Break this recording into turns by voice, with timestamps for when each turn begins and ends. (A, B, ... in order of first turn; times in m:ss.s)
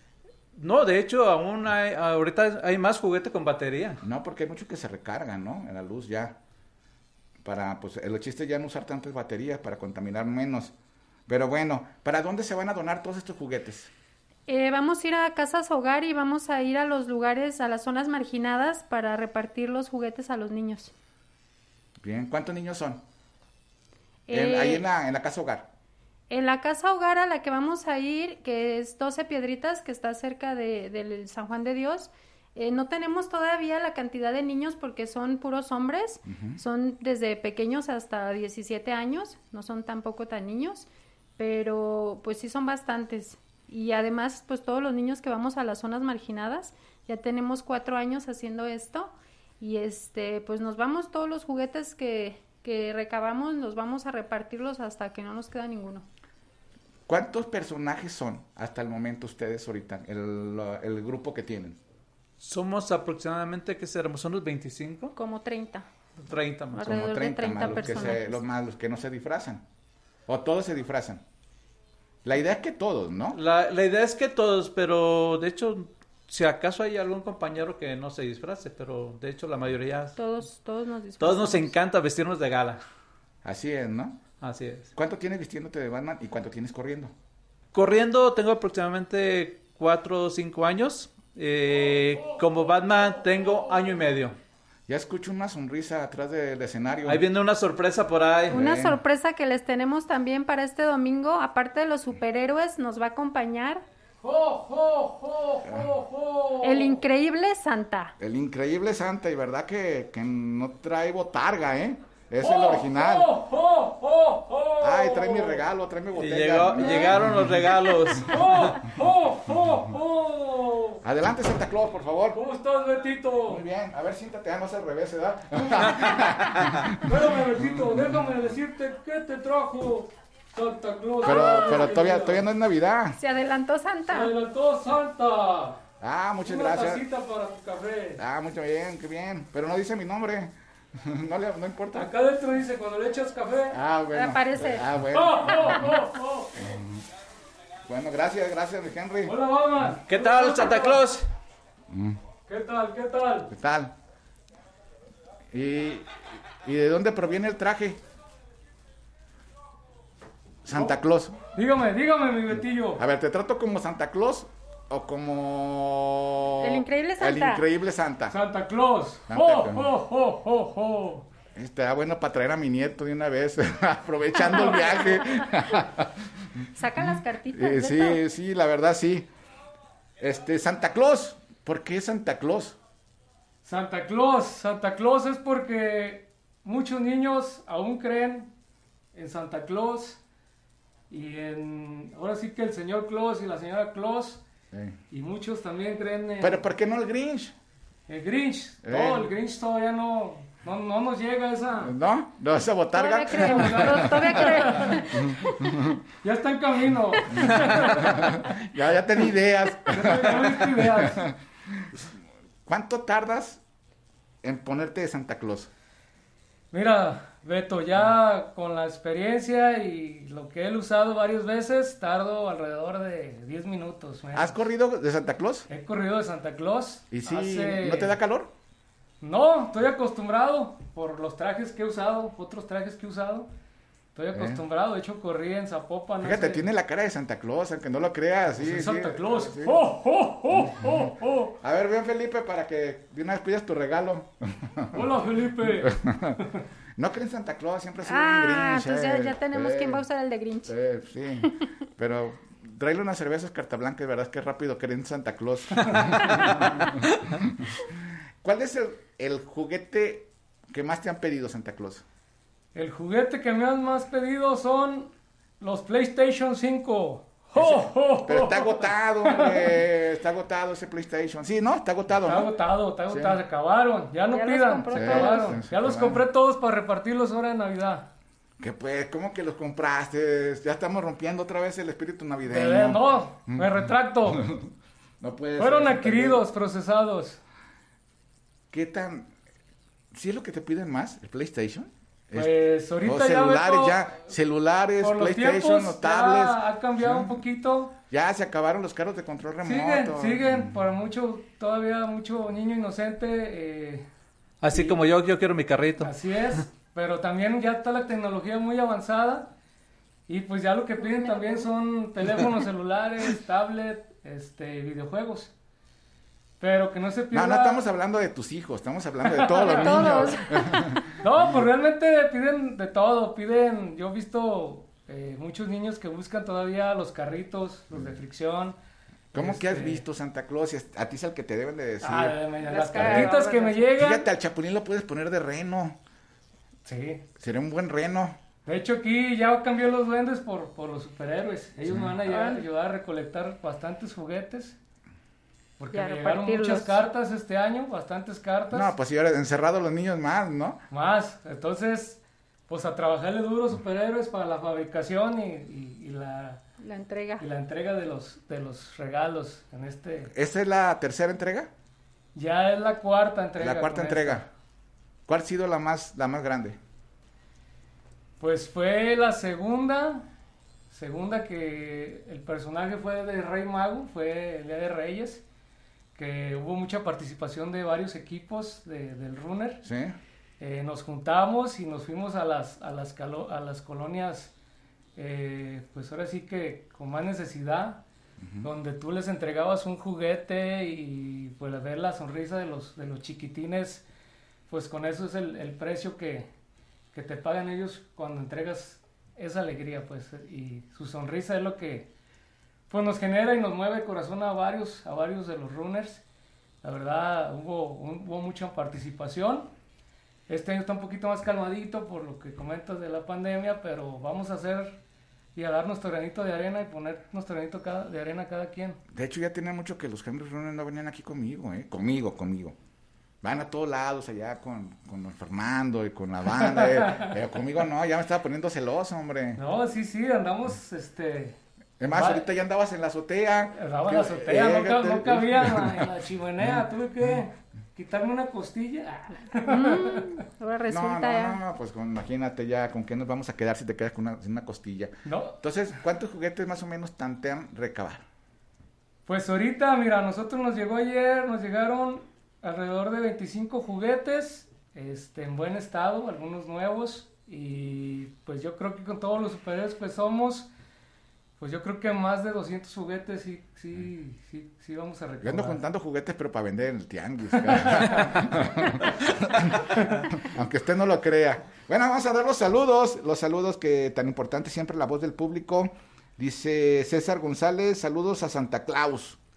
0:00.5-0:04.0 A
0:04.0-0:06.4 B
0:07.4-0:10.7 B
0:11.3-0:13.9 B
0:14.5-0:20.9 C
0:22.0-0:23.0 B
0:24.3-0:24.8 C
0:24.3-0:25.7 B
0:26.3-0:56.0 C
0:36.2-0:36.6 B
0:57.1-1:01.8 B
1:02.4-1:05.1 A
1:05.2-1:05.8 C
1:06.2-1:07.0 A
1:06.7-1:08.4 C
1:06.8-1:09.6 B
1:10.3-1:11.2 B
1:12.2-1:13.4 B
1:13.3-1:20.2 A
1:20.2-1:21.7 C
1:21.2-1:22.8 A
1:23.4-1:24.2 B
1:24.4-1:24.9 A
1:24.9-1:27.1 B
1:27.7-1:34.4 A
1:34.9-1:37.2 B
1:37.1-1:38.6 A
1:38.5-1:39.0 B
1:38.5-1:43.8 C
1:44.2-1:47.0 D
1:45.6-1:45.9 B
1:46.6-1:48.1 C
1:48.2-1:53.3 B
1:52.4-1:55.6 D
1:54.8-1:57.5 B
1:56.2-1:58.8 A
1:56.7-1:57.2 D
1:56.8-1:57.2 C
1:58.0-2:01.0 D
2:01.0-2:02.4 B
2:02.3-2:03.6 D
2:03.4-2:07.2 B
2:06.9-2:12.4 D
2:07.8-2:08.0 B
2:11.2-2:13.2 B
2:11.2-2:11.9 C
2:13.2-2:14.3 C
2:14.1-2:15.8 D
2:16.0-2:17.0 B
2:16.4-2:18.2 D
2:18.2-2:22.1 B
2:21.9-2:23.8 D
2:23.7-2:26.0 B
2:24.1-2:24.8 C
2:25.1-2:26.7 D
2:26.6-2:27.0 B
2:27.8-2:29.3 B
2:29.2-2:31.0 D
2:30.1-2:31.3 A
2:31.9-2:32.2 B
2:32.5-2:33.5 D
2:33.5-2:33.9 B
2:35.5-2:38.0 B
2:40.6-2:41.4 B
2:41.5-2:43.0 D
2:43.0-2:48.3 B
2:46.6-2:47.6 C
2:48.3-2:51.3 D
2:49.3-2:49.9 B
2:51.5-2:59.3 B
2:54.4-2:55.5 C
2:56.8-2:58.2 C
3:00.2-3:02.8 B
3:03.6-3:08.5 D
3:09.1-3:10.2 D
3:11.1-3:14.4 D
3:14.7-3:15.0 B
3:15.1-3:16.6 D
3:16.4-3:17.5 B
3:18.1-3:21.9 D
3:18.8-3:19.3 B
3:21.8-3:26.0 B
3:22.9-3:25.9 C
3:23.3-3:25.6 D
3:26.2-3:28.4 D
3:27.3-3:32.1 B
3:29.9-3:31.2 D
3:32.6-3:33.6 B
3:34.4-3:35.7 B
3:36.7-3:44.6 D
3:44.3-3:45.7 B
3:45.7-3:48.2 D
3:47.1-3:48.5 B
3:49.2-3:53.5 D
3:54.1-3:56.6 D
3:54.3-3:54.6 B
3:56.2-3:59.8 B
3:58.5-4:01.6 D
4:00.5-4:01.0 B
4:01.6-4:05.1 B
4:04.9-4:06.6 D
4:05.8-4:06.4 B
4:07.0-4:10.0 B
4:08.0-4:10.7 C
4:10.6-4:22.0 B
4:16.0-4:17.1 A
4:22.7-4:29.8 D
4:27.6-4:32.5 B
4:32.2-4:38.1 D
4:33.1-4:33.4 B
4:34.3-4:35.6 C
4:34.9-4:36.2 B
4:38.6-4:46.4 B
4:42.4-4:44.5 D
4:45.6-4:47.4 D
4:48.7-4:49.3 B
4:50.1-4:57.4 B
4:52.3-4:54.2 D
4:55.0-4:58.0 D
4:58.1-5:00.7 B
4:59.6-5:04.0 D
5:04.6-5:06.1 A
5:04.7-5:05.0 D
5:06.0-5:09.5 D
5:10.3-5:15.5 D
5:11.0-5:11.7 C
5:16.6-5:17.8 D
5:17.3-5:21.1 B
5:19.2-5:20.3 D
5:19.4-5:21.0 C
5:21.2-5:28.8 D
5:29.3-5:32.4 B
5:29.3-5:30.0 D
5:32.0-5:34.3 D
5:32.6-5:33.9 C
5:32.9-5:33.3 B
5:33.9-5:36.0 B
5:36.8-5:37.2 D
5:37.4-5:38.4 B
5:38.6-5:44.8 D
5:41.8-5:42.2 B
5:42.2-5:42.6 C
5:45.8-5:48.9 D
5:45.9-5:47.0 C
5:48.7-5:50.8 B
5:50.9-5:56.6 D
5:56.8-5:57.4 C
5:57.4-6:00.3 D
6:00.3-6:01.7 B
6:02.3-6:04.4 D
6:03.6-6:04.5 B
6:05.3-6:06.8 B
6:08.4-6:10.3 D
6:10.9-6:15.4 D
6:16.1-6:19.8 D
6:19.8-6:20.2 B
6:20.6-6:24.5 D
6:25.2-6:28.0 D
6:28.4-6:28.7 B
6:28.6-6:34.0 D
6:34.7-6:36.5 D
6:37.1-6:42.1 D
6:42.9-6:46.2 D
6:46.8-6:49.7 D
6:50.5-6:55.0 D
6:55.5-6:59.0 D
6:59.1-7:02.8 B
7:03.4-7:09.6 B
7:06.8-7:07.3 D
7:09.6-7:12.5 D
7:12.0-7:16.1 B
7:13.7-7:20.3 D
7:19.6-7:21.6 C
7:20.9-7:28.2 B
7:25.2-7:25.6 D
7:29.2-7:40.7 D
7:41.6-7:45.8 D
7:45.4-7:59.4 B
7:47.9-7:48.5 D